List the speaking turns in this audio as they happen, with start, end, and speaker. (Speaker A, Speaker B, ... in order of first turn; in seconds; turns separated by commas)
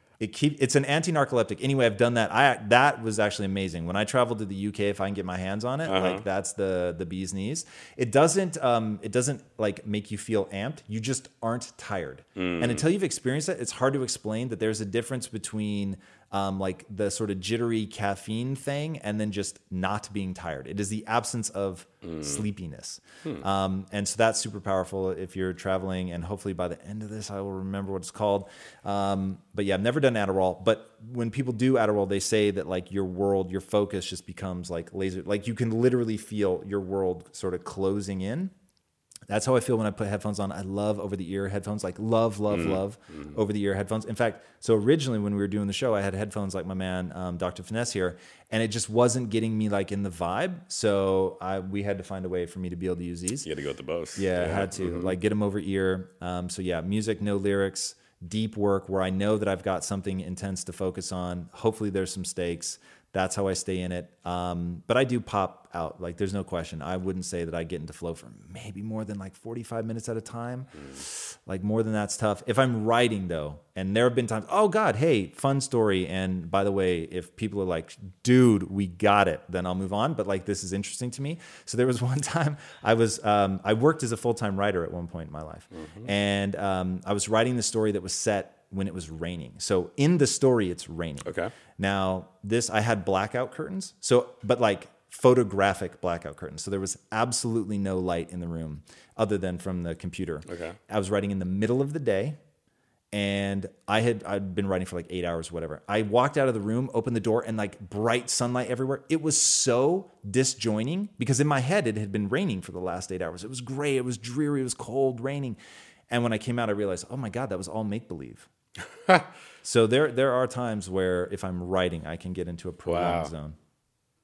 Speaker A: 0.2-38.5, Speaker B: 5.9-6.2, Speaker B: 12.4-12.8, Speaker B: 22.0-22.5, Speaker A: 39.3-53.5, Speaker B: 42.5-43.4, Speaker B: 53.4-55.2, Speaker A: 54.2-102.4, Speaker B: 85.7-86.1, Speaker B: 91.2-91.5, Speaker B: 100.5-100.8, Speaker A: 103.1-115.6, Speaker A: 116.1-118.5, Speaker A: 119.6-123.6, Speaker B: 122.9-123.3